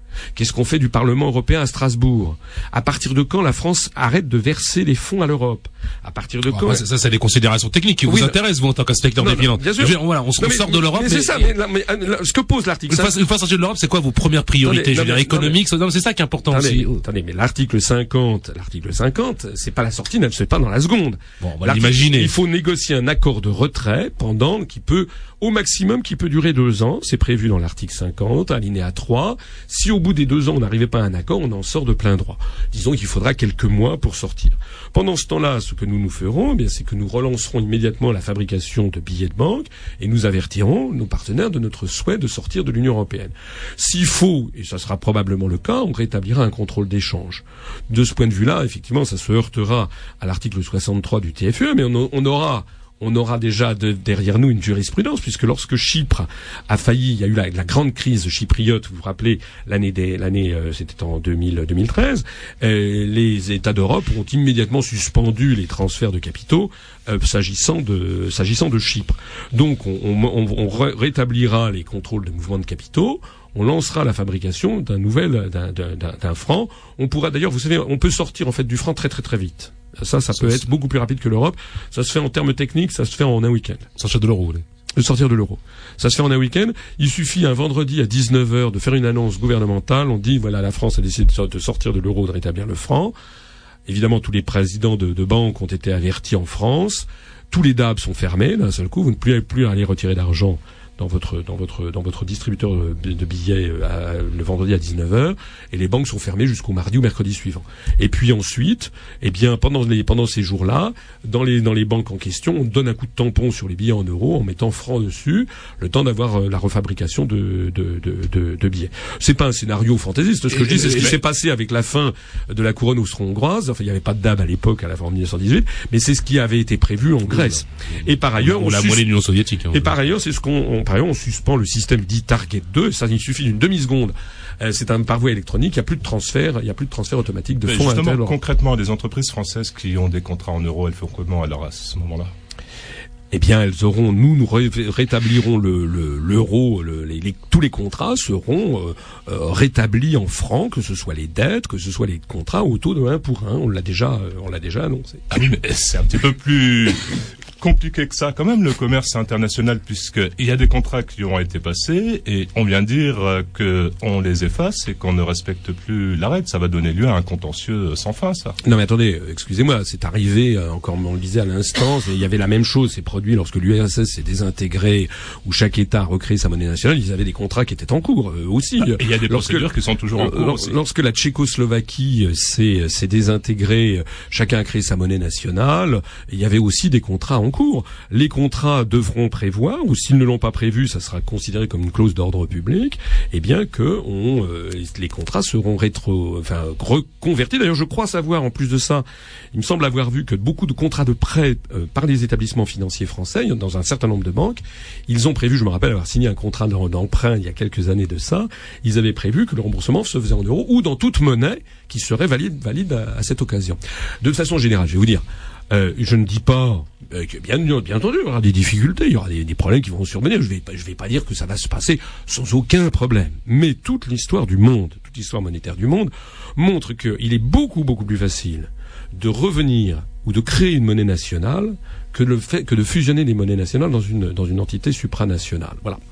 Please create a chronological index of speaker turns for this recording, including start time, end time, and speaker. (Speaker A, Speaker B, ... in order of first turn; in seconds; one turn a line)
Speaker A: 0.3-6.8
Speaker B: 6.5-11.5
Speaker A: 8.1-8.4
Speaker A: 9.2-13.2
Speaker B: 12.9-17.0
Speaker A: 14.6-15.6
Speaker A: 16.5-83.9
Speaker B: 21.4-22.3
Speaker B: 80.4-80.6
Speaker B: 84.0-84.6
Speaker A: 85.0-93.2
Speaker A: 93.9-129.0
Speaker B: 128.4-129.9
Speaker A: 129.7-138.3
Speaker C: 137.7-142.3
Speaker A: 143.3-155.2
Speaker C: 155.3-168.6
Speaker A: 168.6-236.0
Speaker C: 178.8-180.8